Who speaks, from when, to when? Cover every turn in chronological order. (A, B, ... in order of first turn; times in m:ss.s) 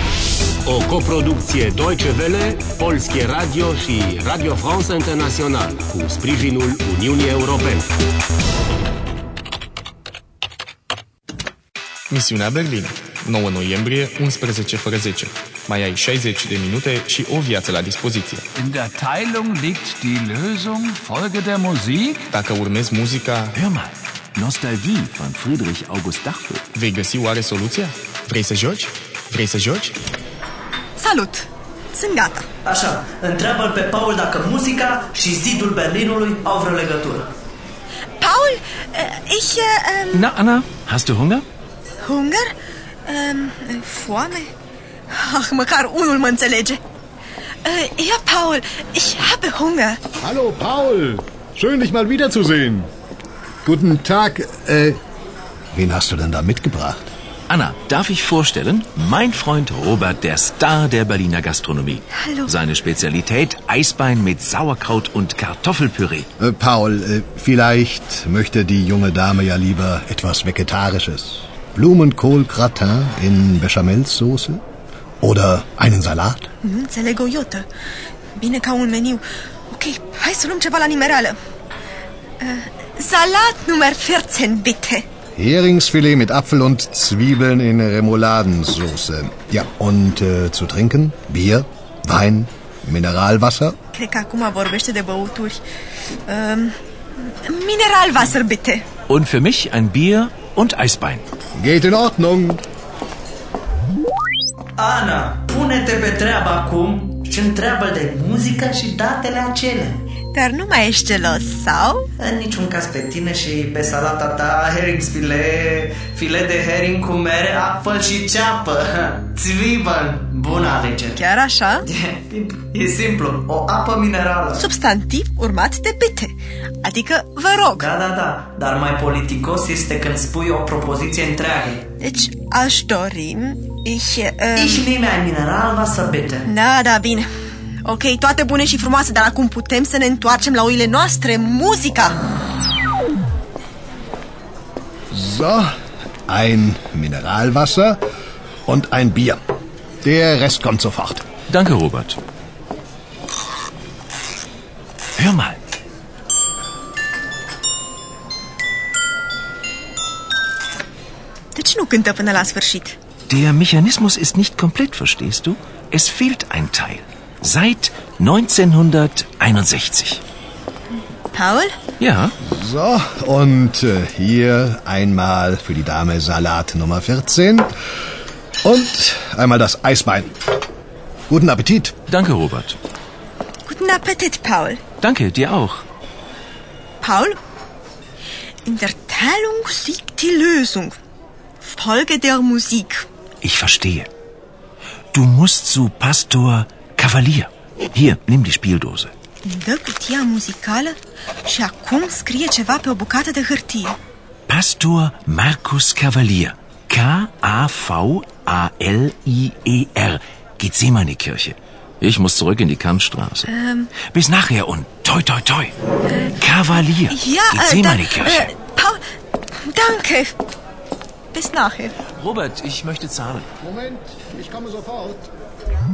0:00.6-0:07.9 A
0:12.1-0:18.4 B
0:18.6-0:22.3 C
0:22.3-0:23.6 B
0:23.5-0:26.7 D
0:26.8-0:29.9 B
0:31.0-0:32.5 E
0:32.6-0:37.3 F
0:38.2-0:40.3 E
0:40.1-0:41.5 D
0:42.0-0:42.5 E
0:43.1-0:44.5 E
0:45.1-0:46.8 E
0:47.6-0:50.0 E
0:50.2-0:52.9 G
0:53.6-0:55.0 G
0:55.7-0:57.1 G
0:57.5-1:06.3 D
1:02.1-1:02.5 E
1:06.4-1:14.6 G
1:15.2-1:16.5 G
1:16.6-1:17.7 E
1:18.4-1:21.4 E
1:22.4-1:25.1 E
1:25.4-1:33.8 G
1:33.9-1:35.6 E
1:36.3-1:38.9 E
1:39.1-1:41.2 D
1:41.6-1:42.6 G
1:44.8-1:50.0 F
1:50.3-1:52.1 E
1:52.2-2:01.2 F
2:01.2-2:01.9 E
2:01.9-2:04.6 F
2:04.6-2:07.9 E
2:07.8-2:11.8 F
2:12.0-2:14.9 E
2:14.6-2:16.5 F
2:16.5-2:17.3 E
2:17.8-2:22.2 E
2:25.1-2:25.7 G
2:26.3-2:28.0 G
2:28.7-2:29.4 G
2:30.0-2:31.2 G
2:31.5-2:32.2 D
2:35.2-2:35.6 D
2:41.6-2:43.0 E
2:43.3-2:50.2 D
2:51.3-2:51.7 E
2:52.0-2:52.3 D
2:52.4-2:57.7 G
2:58.6-3:00.3 G
3:01.3-3:02.0 G
3:02.1-3:02.8 D
3:03.7-3:04.8 E
3:05.0-3:05.8 D
3:07.0-3:07.4 E
3:08.6-3:11.0 E
3:11.6-3:13.1 E
3:13.4-3:14.1 D
3:15.1-3:19.1 D
3:19.4-3:24.0 E
3:24.5-3:33.5 D
3:33.5-3:33.9 E
3:34.0-3:38.5 D
3:37.1-3:39.0 E
3:39.7-3:40.4 E
3:41.3-3:42.0 E
3:42.2-3:43.5 D
3:43.6-3:45.3 G